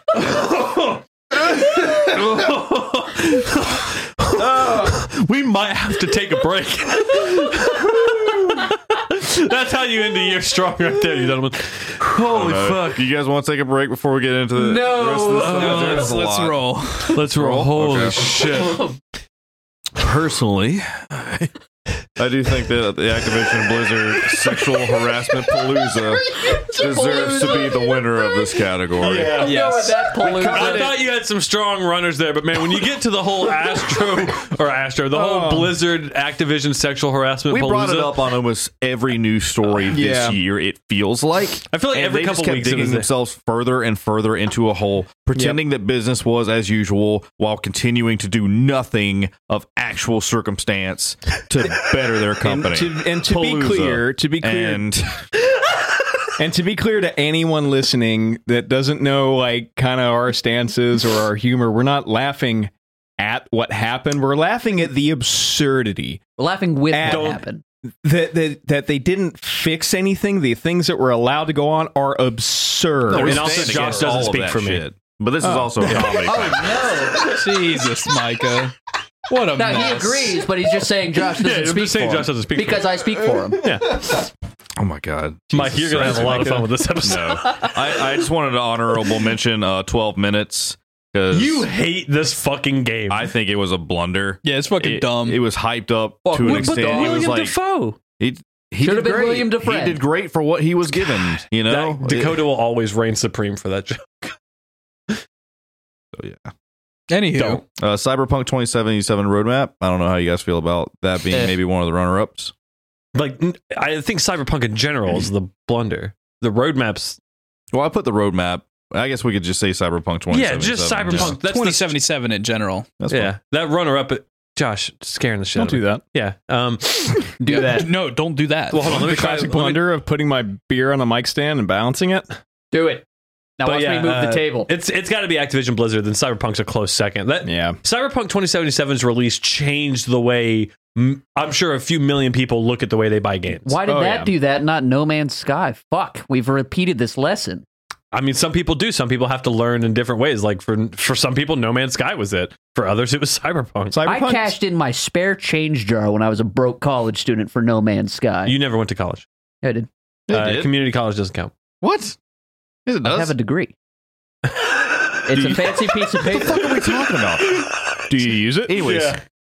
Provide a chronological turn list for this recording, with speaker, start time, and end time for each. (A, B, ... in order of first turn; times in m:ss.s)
0:00.1-0:13.1 A
0:12.1-0:18.6 B
0:14.6-0:16.0 C
0:15.2-0:17.2 D
0:15.3-0:16.1 A
0:17.1-0:18.9 A
0:20.0-0:21.5 B
0:22.2-0:29.5 B
0:26.0-0:28.6 C
0:29.0-0:29.7 A
0:29.3-0:30.9 C
0:29.5-0:30.0 D
0:30.2-0:30.9 B
0:30.4-0:38.3 A
0:35.1-0:35.8 E
0:37.5-0:55.3 B
0:39.9-0:40.4 E
0:41.7-0:43.1 A
0:45.3-0:45.6 E
0:52.4-0:54.8 E
0:56.4-1:06.2 E
1:06.4-1:07.6 C
1:06.9-1:07.4 E
1:07.0-1:07.4 A
1:08.0-1:13.8 E
1:13.1-1:16.9 B
1:13.1-1:14.8 A
1:15.4-1:16.0 E
1:15.9-1:16.3 A
1:16.0-1:17.5 C
1:17.2-1:18.8 D
1:19.3-1:20.4 D
1:19.5-1:23.6 C
1:21.4-1:23.0 A
1:23.6-1:24.2 A
1:24.8-1:31.7 B
1:25.5-1:27.7 A
1:26.3-1:26.6 E
1:31.3-1:33.3 A
1:33.1-1:37.6 B
1:34.4-1:35.4 D
1:36.3-1:37.3 C
1:36.4-1:38.0 A
1:38.2-1:42.4 B
1:38.8-1:40.0 C
1:41.3-1:44.4 A
1:46.2-1:46.5 B
1:47.1-1:47.6 D
1:47.4-1:47.6 A
1:47.8-1:52.5 B
1:51.3-1:51.6 C
1:53.1-1:57.2 A
1:57.7-2:01.4 B
2:00.3-2:02.0 A
2:01.1-2:02.9 D
2:03.0-2:03.3 B
2:03.1-2:07.2 A
2:05.6-2:06.0 E
2:07.4-2:07.9 E
2:07.4-2:07.8 C
2:07.5-2:09.1 D
2:08.7-2:09.8 A
2:08.8-2:12.4 E
2:12.7-2:13.0 C
2:13.6-2:14.7 C
2:13.6-2:23.8 A
2:17.4-2:17.8 E
2:23.6-2:27.6 C
2:23.9-2:24.3 E
2:28.1-2:34.0 A
2:33.9-2:34.6 E
2:34.0-2:38.6 C
2:38.4-2:39.3 A
2:39.6-2:39.9 C
2:40.3-2:40.7 B
2:40.3-2:41.5 A
2:41.8-2:42.2 B
2:42.9-2:43.4 B
2:43.0-2:43.7 C
2:44.5-2:45.6 A
2:45.3-2:46.9 C
2:45.3-2:47.8 B
2:48.1-2:48.8 E
2:48.6-2:49.2 B
2:48.8-2:49.2 A